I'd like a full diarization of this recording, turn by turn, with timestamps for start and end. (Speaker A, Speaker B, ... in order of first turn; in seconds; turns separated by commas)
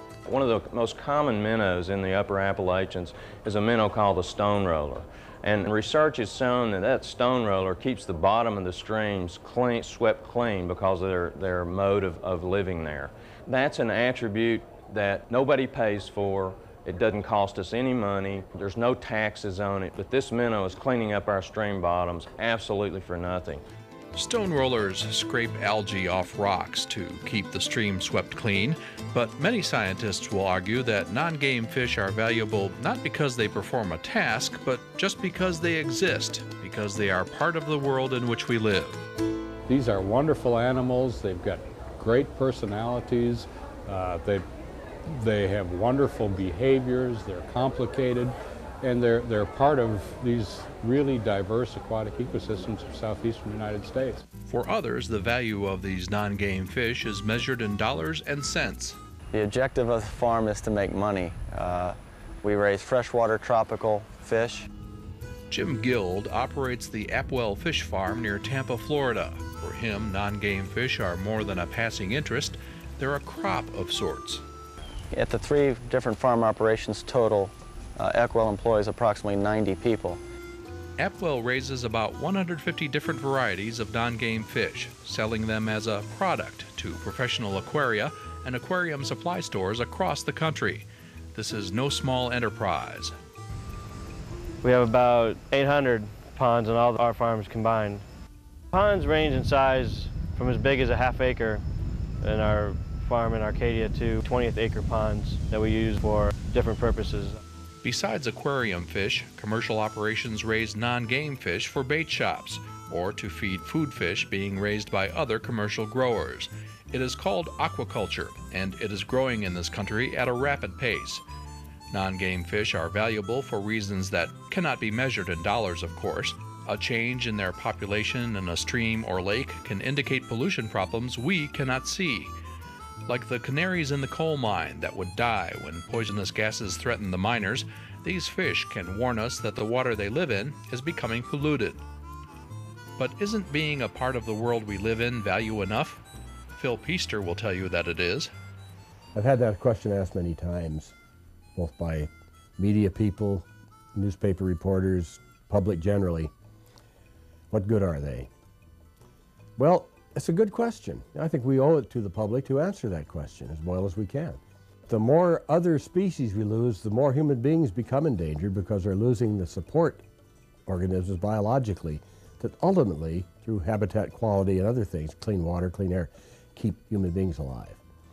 Speaker A: 0.2-23.6, Speaker B: 24.1-39.0, Speaker C: 39.7-44.5, Speaker C: 45.1-54.2, Speaker B: 54.5-59.0, Speaker D: 59.3-64.7, Speaker B: 65.5-74.4, Speaker D: 75.1-80.2, Speaker B: 81.0-93.1, Speaker E: 94.6-98.0, Speaker E: 98.7-101.6, Speaker E: 102.2-107.4, Speaker B: 107.8-121.2, Speaker B: 121.9-132.3, Speaker B: 133.1-141.8, Speaker B: 143.0-146.0, Speaker B: 146.5-148.3, Speaker F: 149.1-150.9, Speaker F: 151.5-156.3, Speaker F: 157.5-158.3, Speaker F: 159.6-170.0, Speaker F: 170.7-177.8